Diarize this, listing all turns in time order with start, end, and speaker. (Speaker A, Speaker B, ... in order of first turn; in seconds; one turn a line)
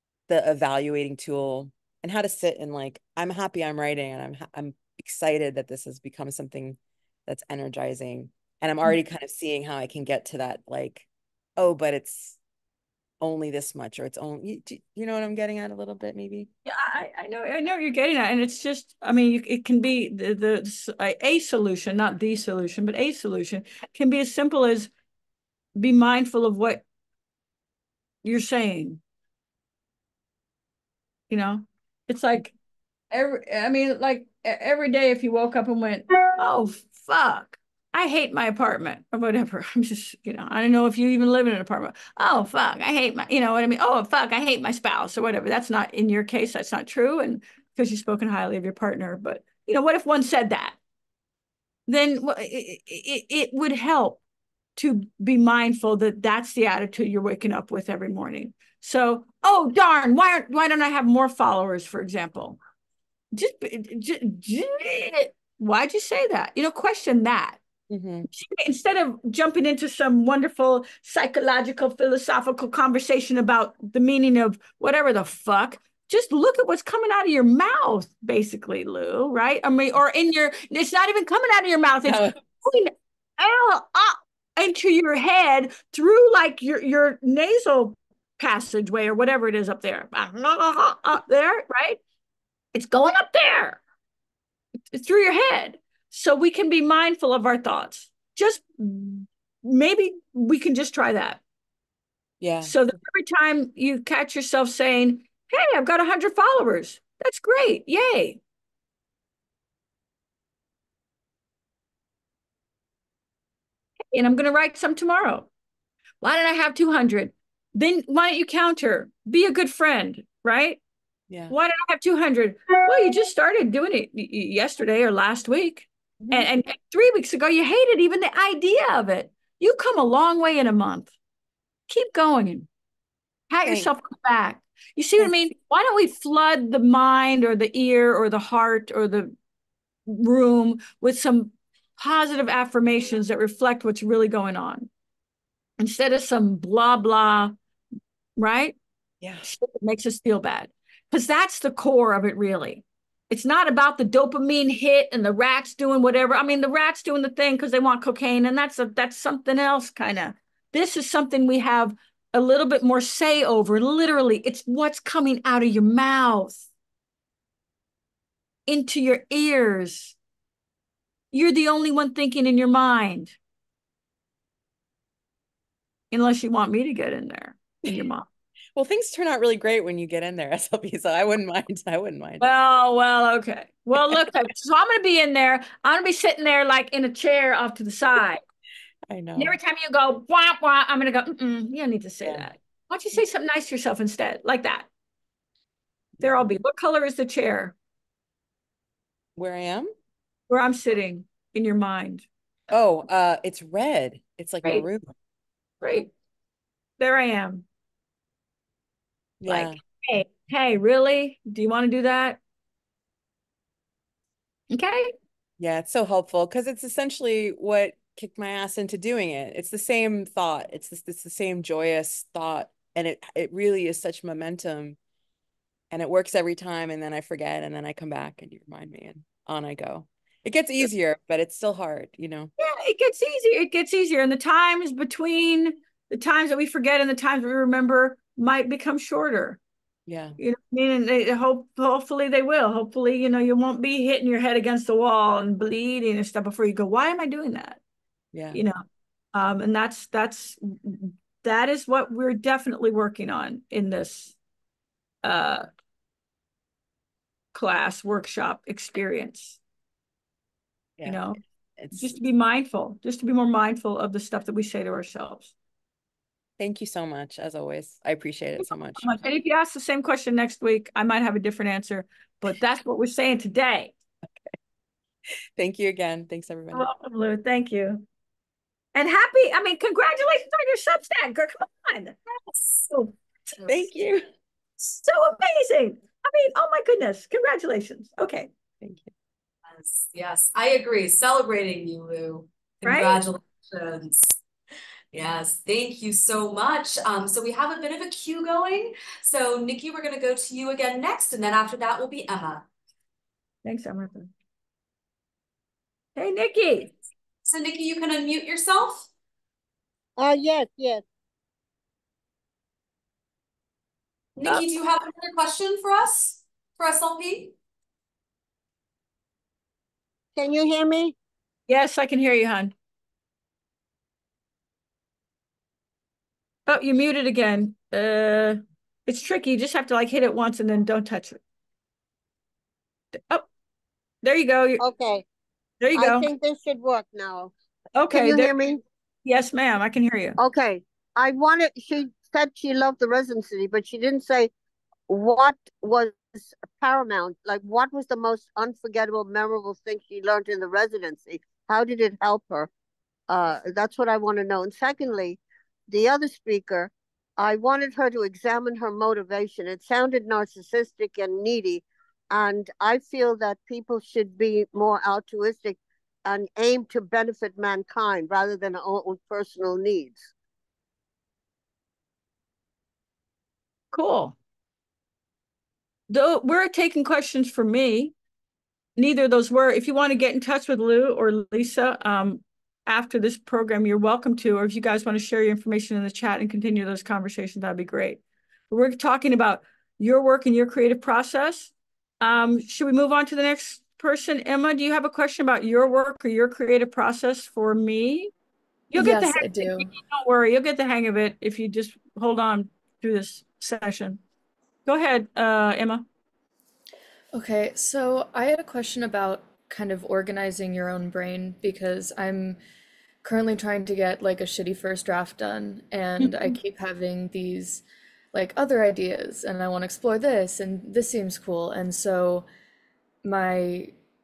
Speaker A: 0.3-11.1
Speaker A: 11.6-12.4
Speaker A: 13.2-16.5
Speaker B: 16.7-24.9
Speaker B: 25.8-26.8
Speaker B: 28.2-29.0
Speaker B: 31.3-32.5
Speaker B: 33.1-50.8
Speaker B: 51.9-54.2
Speaker B: 54.8-62.6
Speaker B: 63.3-67.6
Speaker A: 67.9-68.3
Speaker B: 68.3-92.0
Speaker A: 82.0-82.4
Speaker B: 92.7-93.8
Speaker B: 94.9-101.4
Speaker A: 102.4-102.8
Speaker B: 102.6-108.4
Speaker B: 114.1-115.5
Speaker B: 116.2-120.8
Speaker B: 121.5-131.1
Speaker A: 126.2-126.5
Speaker B: 131.9-132.7
Speaker B: 133.5-139.3
Speaker A: 133.6-133.9
Speaker B: 140.1-144.9
Speaker B: 145.8-147.6
Speaker B: 148.4-148.8
Speaker A: 149.2-149.5
Speaker B: 149.4-166.7
Speaker B: 168.7-170.2
Speaker B: 171.3-173.4
Speaker B: 176.1-178.3
Speaker A: 178.8-182.5
Speaker B: 182.4-188.4
Speaker A: 189.1-189.6
Speaker B: 189.4-194.9
Speaker A: 196.2-196.5
Speaker B: 196.2-197.7
Speaker A: 199.4-199.9
Speaker B: 200.5-202.3
Speaker A: 202.7-205.1
Speaker B: 205.8-206.1
Speaker B: 207.0-207.7
Speaker A: 209.4-209.8
Speaker B: 209.5-212.4
Speaker B: 214.7-215.1
Speaker A: 215.6-225.0
Speaker A: 225.9-232.5
Speaker B: 232.6-239.6
Speaker A: 240.1-240.4
Speaker B: 240.4-247.8
Speaker A: 248.3-248.6
Speaker B: 248.5-248.8
Speaker B: 249.3-254.3
Speaker B: 255.2-255.7
Speaker B: 257.5-259.6
Speaker A: 261.0-262.2
Speaker B: 261.0-261.4
Speaker B: 261.9-265.5
Speaker A: 266.6-269.2
Speaker B: 268.6-273.9
Speaker A: 275.6-276.9
Speaker B: 276.7-278.1
Speaker B: 278.9-282.2
Speaker B: 282.9-284.0
Speaker A: 283.6-284.2
Speaker B: 284.8-288.5
Speaker A: 288.8-289.1
Speaker C: 289.7-294.4
Speaker B: 292.8-293.2
Speaker C: 295.1-302.7
Speaker B: 303.6-304.3
Speaker B: 306.2-306.9
Speaker C: 307.4-309.1
Speaker D: 310.2-311.0
Speaker C: 314.4-317.6
Speaker D: 320.4-321.1
Speaker B: 321.7-322.7
Speaker B: 326.7-331.4
Speaker B: 334.2-334.8
Speaker D: 334.8-335.2
Speaker B: 335.8-336.3
Speaker D: 335.9-337.5
Speaker B: 338.0-338.5
Speaker D: 338.1-338.8
Speaker B: 339.2-340.4
Speaker D: 340.4-344.5
Speaker D: 345.1-352.7
Speaker D: 353.3-370.3
Speaker B: 373.9-374.4
Speaker B: 376.1-378.1
Speaker B: 379.0-398.3
Speaker B: 398.9-404.2
Speaker E: 398.9-399.9
Speaker B: 404.9-406.1
Speaker E: 407.3-412.6
Speaker E: 413.2-422.5
Speaker B: 416.2-416.5
Speaker E: 423.2-424.0